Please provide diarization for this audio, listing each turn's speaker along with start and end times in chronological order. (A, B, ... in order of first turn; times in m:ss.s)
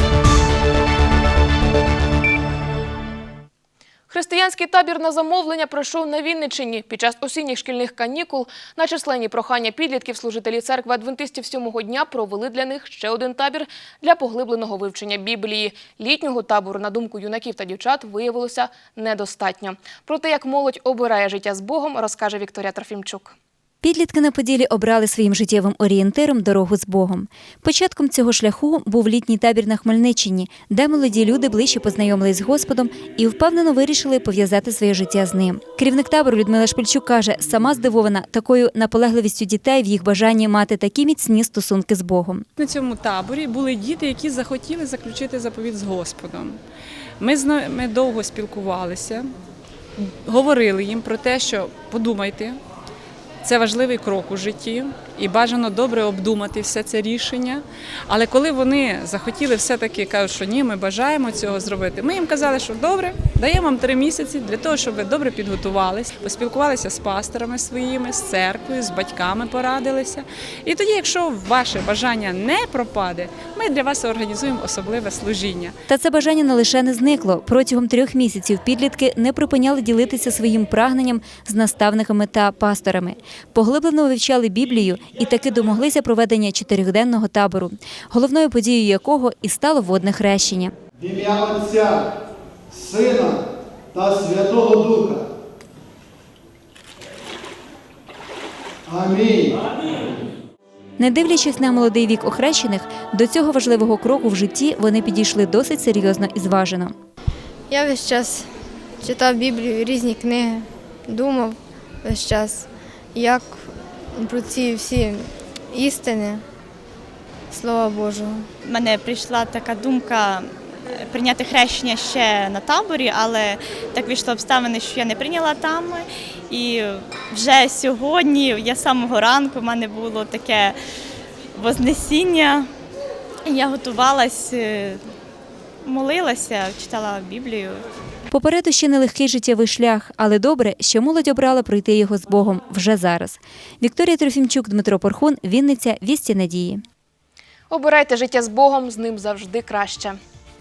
0:04.1-0:23.3 A
0:23.8-0:42.4 B
0:42.6-0:46.6 C
0:47.2-0:49.3 C
0:50.0-0:52.6 C
0:53.4-1:15.8 C
1:15.9-1:30.7 B
1:31.0-1:32.1 D
1:32.7-1:35.3 D
1:38.9-1:39.6 D
1:41.0-1:46.9 B
1:47.7-1:56.4 E
1:57.5-1:58.5 E
1:58.6-2:10.8 F
2:11.5-2:12.7 F
2:13.4-2:15.0 F
2:15.8-2:17.8 F
2:18.3-2:26.8 B
2:27.7-2:30.2 A